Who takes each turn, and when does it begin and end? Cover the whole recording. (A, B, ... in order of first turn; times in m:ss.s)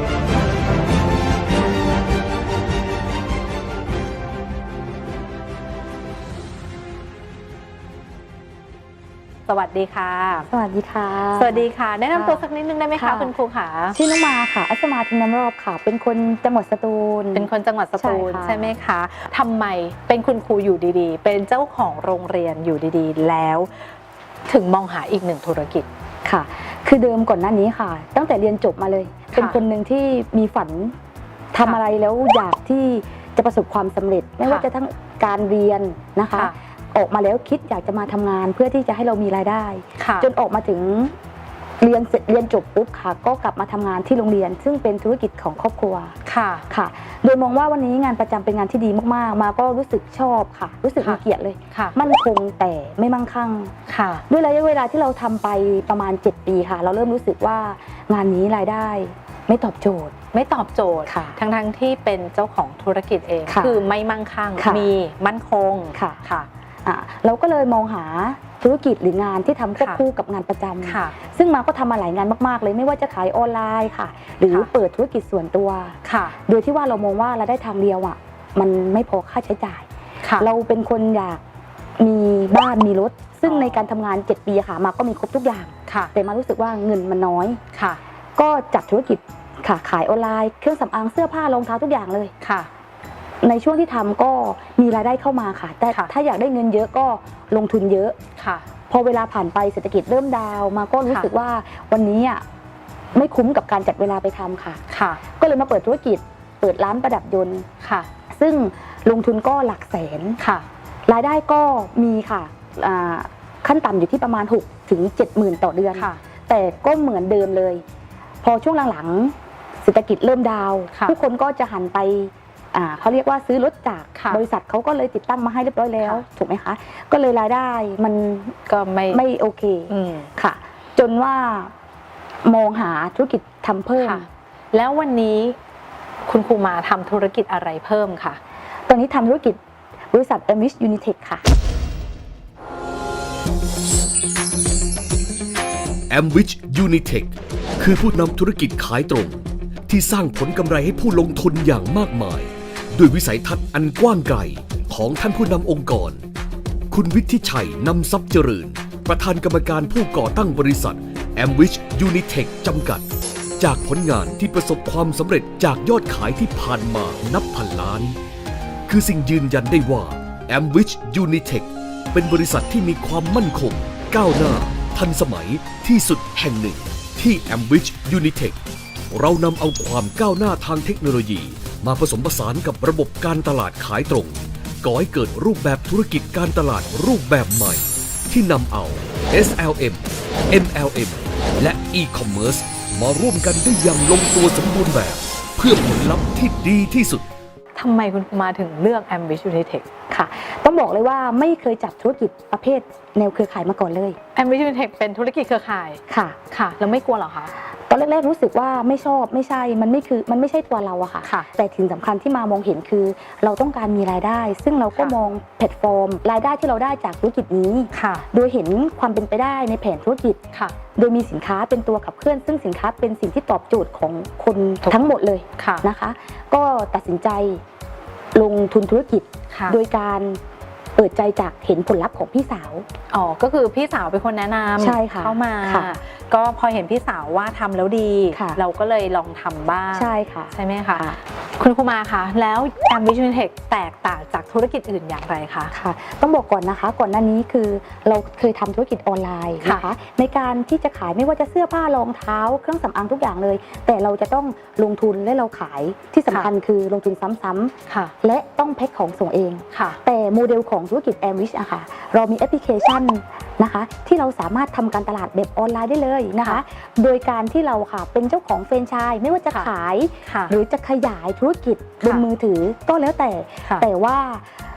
0:09.5-0:10.5 A
0:10.5-0:13.3 B
0:11.3-0:14.0 A
0:13.9-0:18.8 B
0:17.3-0:23.9 A
0:24.5-0:25.9 A
0:26.2-0:31.0 B
0:29.3-0:29.6 A
0:31.5-0:41.1 B
0:40.0-0:40.3 A
0:41.8-0:46.1 B
0:46.2-0:46.7 A
0:46.7-0:53.7 B
0:53.9-0:54.2 A
0:54.3-1:00.1 B
1:00.3-1:06.5 A
1:01.1-1:01.4 B
1:03.5-1:03.8 B
1:04.6-1:04.9 B
1:06.8-1:19.9 B
1:10.8-1:11.1 A
1:16.0-1:16.4 A
1:20.2-1:20.5 A
1:20.4-1:21.4 B
1:22.0-1:27.6 B
1:23.4-1:23.9 A
1:25.9-1:26.1 A
1:27.7-1:28.0 A
1:28.4-1:32.3 B
1:32.4-1:32.7 A
1:33.4-1:38.2 B
1:38.4-1:38.6 A
1:38.9-1:42.4 B
1:43.1-1:44.8 B
1:44.9-1:45.2 A
1:45.4-1:47.7 B
1:47.8-1:48.1 A
1:48.3-1:50.4 B
1:50.4-1:50.6 A
1:51.1-1:57.8 B
1:58.4-2:08.6 B
2:00.9-2:01.2 A
2:04.1-2:04.4 A
2:08.7-2:09.2 A
2:09.1-2:11.7 B
2:09.9-2:10.3 A
2:12.4-2:14.3 B
2:14.0-2:15.6 A
2:16.3-2:18.4 A
2:18.9-2:19.6 B
2:20.1-2:21.4 B
2:26.1-2:36.2 C
2:36.9-2:43.0 C
2:43.6-2:48.2 C
2:48.9-2:58.6 C
2:59.1-3:17.2 C
3:17.8-3:19.8 A
3:20.1-3:24.2 B
3:24.4-3:27.5 A
3:26.1-3:26.4 B
3:27.9-3:40.4 B
3:31.2-3:31.5 A
3:37.9-3:38.2 A
3:41.0-3:47.6 B
3:45.6-3:45.9 A
3:48.4-3:50.4 B
3:49.5-3:49.8 A
3:51.0-3:52.8 B
3:53.1-4:05.7 A
3:54.8-3:55.9 B
3:58.3-3:58.6 B
3:59.9-4:01.2 B
4:05.7-4:34.5 B
4:09.6-4:09.9 A
4:17.9-4:18.1 A
4:19.7-4:20.0 A
4:30.2-4:30.5 A